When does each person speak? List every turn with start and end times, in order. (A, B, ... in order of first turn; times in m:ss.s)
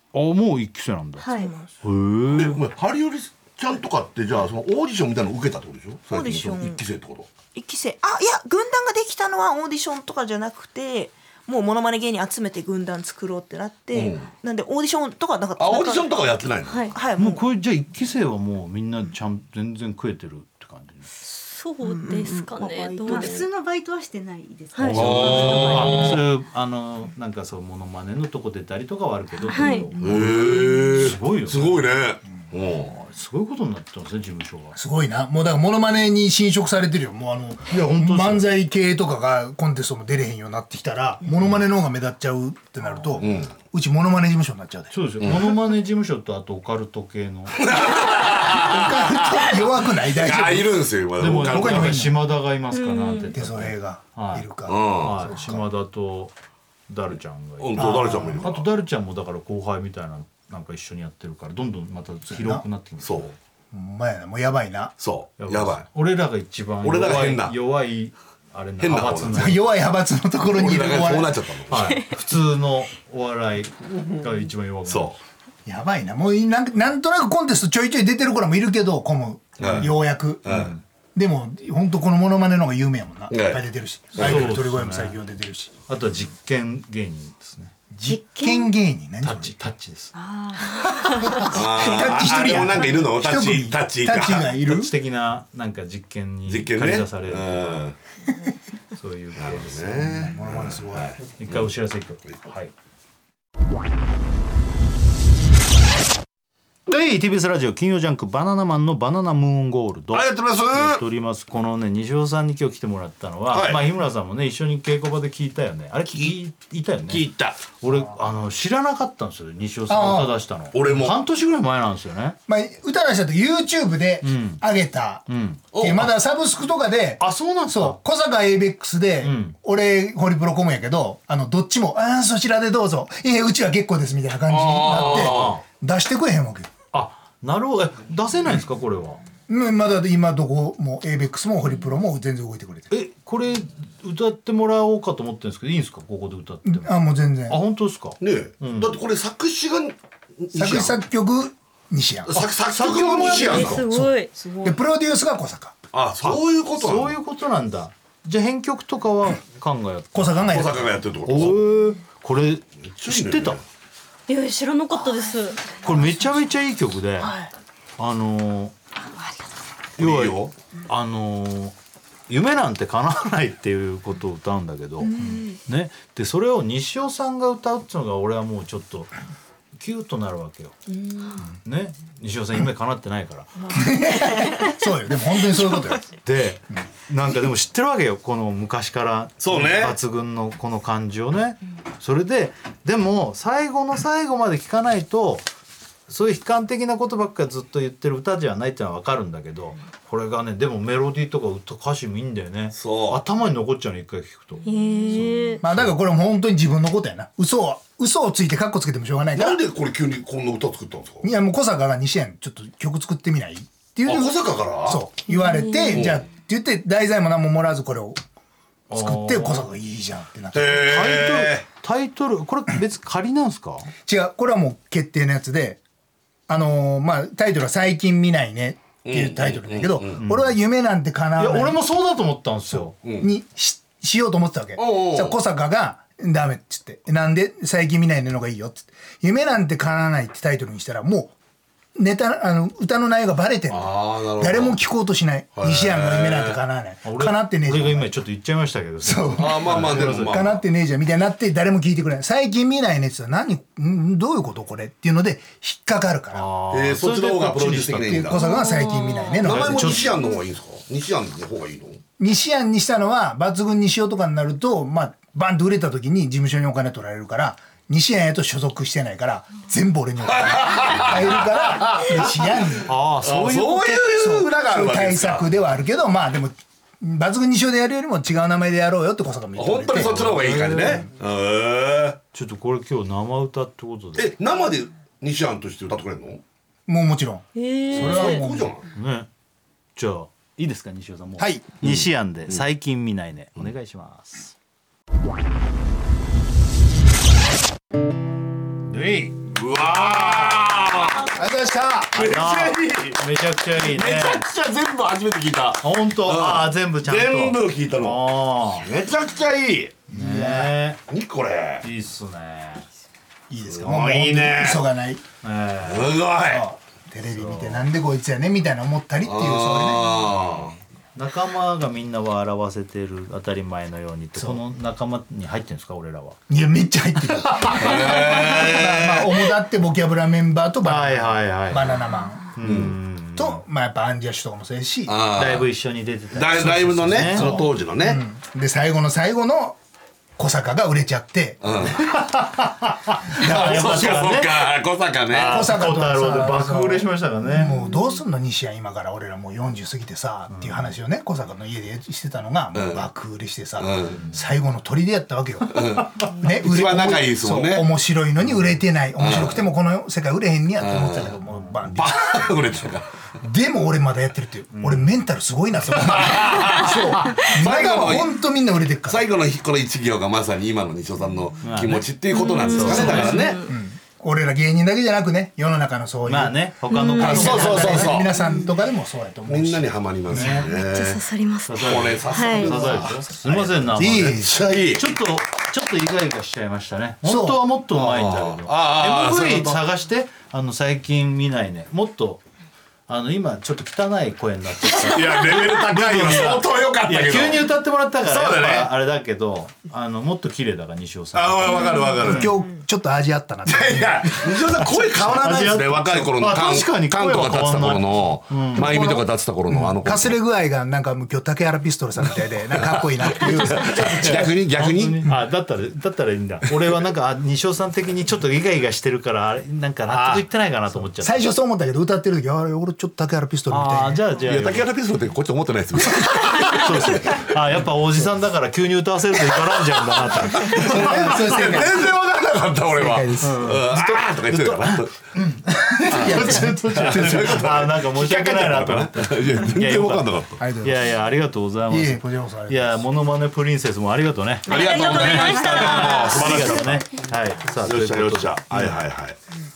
0:00.1-0:01.3 A
0:01.2-0:01.5 B
0:01.3-0:01.7 C
0:01.8-0:02.6 A
0:02.3-0:07.3 D
0:06.1-0:06.9 C
0:07.5-0:17.4 C
0:13.9-0:14.3 D
0:15.6-0:16.9 D
0:16.7-0:16.9 B
0:17.2-0:21.1 A
0:21.3-0:23.5 B
0:21.8-0:23.5 C
0:23.1-0:26.1 E
0:24.8-0:26.1 B
0:24.8-0:31.9 A
0:24.9-0:26.2 D
0:29.5-0:29.9 B
0:29.6-0:30.7 C
0:30.0-0:33.0 D
0:32.9-0:34.8 A
0:34.8-0:45.0 F
0:37.7-0:38.5 A
0:43.2-0:43.5 D
0:44.9-0:47.7 A
0:45.2-0:45.6 D
0:47.6-0:52.0 D
0:48.3-0:50.9 F
0:51.2-0:56.3 A
0:51.4-0:52.2 F
0:52.7-0:53.3 B
0:53.3-0:55.3 F
0:54.7-0:55.6 D
0:56.9-1:03.4 A
0:57.6-0:58.7 D
0:57.8-0:58.5 F
1:02.3-1:02.6 F
1:03.0-1:03.3 D
1:03.7-1:05.0 F
1:05.0-1:05.9 D
1:05.4-1:09.7 A
1:06.8-1:07.6 D
1:08.8-1:09.6 D
1:09.3-1:11.4 F
1:10.5-1:12.0 D
1:11.7-1:15.2 A
1:14.9-1:15.1 D
1:15.7-1:20.6 F
1:19.6-1:19.9 D
1:19.6-1:19.9 A
1:20.4-1:20.8 D
1:20.5-1:20.8 A
1:21.2-1:25.8 F
1:23.3-1:24.6 D
1:24.2-1:25.2 A
1:25.9-1:27.8 A
1:27.9-1:29.5 F
1:28.1-1:28.4 B
1:29.2-1:30.2 A
1:30.2-1:31.0 E
1:31.3-1:34.9 F
1:31.5-1:34.5 D
1:34.6-1:37.9 A
1:36.5-1:38.0 D
1:39.0-1:40.4 A
1:39.4-1:41.7 D
1:40.3-1:41.2 F
1:41.4-1:42.7 A
1:46.9-2:02.4 A
1:50.1-1:51.0 D
1:53.5-1:53.9 D
1:57.1-1:57.7 D
1:59.9-2:00.4 F
2:00.7-2:01.2 D
2:02.5-2:16.7 F
2:04.2-2:04.6 A
2:05.3-2:05.7 A
2:05.7-2:06.1 D
2:07.2-2:08.0 A
2:09.2-2:09.6 A
2:14.5-2:15.6 D
2:14.9-2:15.6 A
2:16.9-2:19.2 A
2:19.5-2:22.9 F
2:22.9-2:26.9 A
2:26.6-2:27.6 F
2:27.5-2:29.0 A
2:28.2-2:31.0 D
2:30.5-2:32.4 F
2:32.3-2:33.8 D
2:32.8-2:34.3 B
2:33.1-2:33.6 A
2:33.7-2:35.8 F
2:34.4-2:34.8 C
2:35.9-2:37.2 D
2:36.2-2:40.6 A
2:40.1-2:40.9 F
2:40.5-2:41.7 D
2:41.3-2:43.6 A
2:43.0-2:43.6 D
2:44.3-2:45.7 B
2:45.8-2:47.4 A
2:47.2-2:47.5 C
2:48.0-2:48.7 A
2:50.0-2:50.5 D
2:50.0-2:51.7 A
2:52.3-2:59.1 A
2:55.0-2:55.6 C
2:59.8-3:00.8 A
3:00.9-3:01.5 C
3:01.6-3:03.5 A
3:03.6-3:04.8 C
3:03.7-3:06.2 F
3:06.2-3:15.5 A
3:09.4-3:10.0 D
3:16.1-3:25.8 A
3:22.8-3:23.2 D
3:24.6-3:25.6 B
3:25.6-3:29.6 F
3:29.4-3:31.3 D
3:31.2-3:38.2 F
3:34.1-3:35.0 D
3:35.3-3:36.0 B
3:35.9-3:36.2 D
3:38.9-3:39.7 A
3:38.9-3:41.0 F
3:40.5-3:41.7 D
3:40.8-3:43.9 A
3:44.0-3:45.8 F
3:46.5-3:51.8 F
3:49.0-3:50.2 D
3:50.2-3:50.6 A
3:51.4-3:53.0 A
3:53.0-3:53.3 D
3:53.1-4:01.4 F
3:54.8-3:55.4 D
4:02.0-4:08.2 F
4:03.7-4:04.8 D
4:05.6-4:06.6 D
4:07.0-4:10.6 A
4:09.0-4:16.5 F
4:09.4-4:10.6 D
4:16.3-4:18.4 A
4:16.7-4:18.6 D
4:18.0-4:20.1 F
4:18.4-4:19.4 B
4:19.4-4:22.0 D
4:19.4-4:20.2 A
4:22.2-4:32.9 F
4:30.3-4:32.3 D
4:32.8-4:34.2 A
4:33.2-4:35.5 D
4:34.2-4:40.4 F
4:39.6-4:42.2 D
4:40.0-4:41.1 A
4:42.3-4:44.3 A
4:44.2-4:46.4 D
4:46.9-4:48.8 F
4:47.6-4:48.4 B
4:47.9-4:48.8 D
4:49.0-4:49.3 A
4:50.0-4:54.6 A
4:51.4-4:51.8 F
4:51.8-4:52.6 D
4:58.9-5:00.6 A
4:59.6-5:01.3 D
5:01.3-5:02.2 F
5:02.1-5:04.4 A
5:02.2-5:03.2 D
5:03.8-5:10.0 D
5:05.8-5:08.9 A
5:10.1-5:11.0 A
5:10.1-5:10.8 F
5:11.1-5:11.8 D
5:11.8-5:12.9 A
5:13.5-5:15.2 F
5:13.7-5:14.8 D
5:15.4-5:16.3 A
5:15.8-5:16.7 D
5:16.4-5:20.2 F
5:17.3-5:17.9 A
5:19.2-5:20.8 D
5:21.2-5:26.4 A
5:24.4-5:24.6 F
5:26.5-5:32.6 F
5:27.8-5:29.3 D
5:30.8-5:32.0 A
5:32.6-5:33.6 A
5:32.6-5:33.0 D
5:33.4-5:35.2 F
5:35.1-5:35.7 D
5:35.4-5:37.6 A
5:36.3-5:38.2 D
5:37.3-5:39.8 F
5:40.4-5:41.8 F
5:41.6-5:42.0 D
5:42.0-5:44.7 A
5:43.4-5:44.2 F
5:43.4-5:45.6 D
5:45.3-5:47.8 A
5:45.4-6:02.8 F
5:50.5-5:50.9 A
5:52.8-5:53.0 D
5:53.8-5:54.2 D
5:55.7-5:57.9 D
5:59.2-5:59.6 D
6:00.8-6:01.4 D
6:01.9-6:03.1 D
6:03.4-6:09.3 F
6:04.7-6:05.2 A
6:06.1-6:08.4 D
6:09.1-6:13.6 D
6:11.6-6:12.1 A
6:12.3-6:13.7 B
6:12.7-6:13.4 A
6:13.0-6:20.6 F
6:16.3-6:18.2 A
6:16.9-6:17.7 B
6:17.2-6:18.4 D
6:19.5-6:21.2 D
6:20.3-6:20.7 A
6:20.7-6:22.8 B
6:21.7-6:32.4 A
6:21.8-6:25.1 D
6:23.9-6:24.6 F
6:27.2-6:27.7 F
6:27.9-6:29.9 D
6:33.1-6:42.6 A
6:34.9-6:38.9 D
6:41.3-6:42.6 D
6:41.9-6:42.8 C
6:42.2-6:45.2 F
6:43.7-6:50.4 D
6:45.1-6:49.2 A
6:48.8-6:54.6 F
6:53.3-6:55.3 D
6:53.4-7:01.4 A
7:00.1-7:04.3 F
7:03.7-7:04.9 A
7:04.4-7:07.5 D
7:06.6-7:11.7 A
7:10.3-7:15.2 D
7:10.7-7:12.0 F
7:12.9-7:14.0 F
7:13.4-7:14.1 A
7:15.4-7:29.0 A
7:15.8-7:17.7 F
7:16.1-7:20.6 D
7:20.6-7:21.1 F
7:21.9-7:23.1 F
7:24.7-7:29.4 D
7:24.7-7:26.7 B
7:24.7-7:26.6 E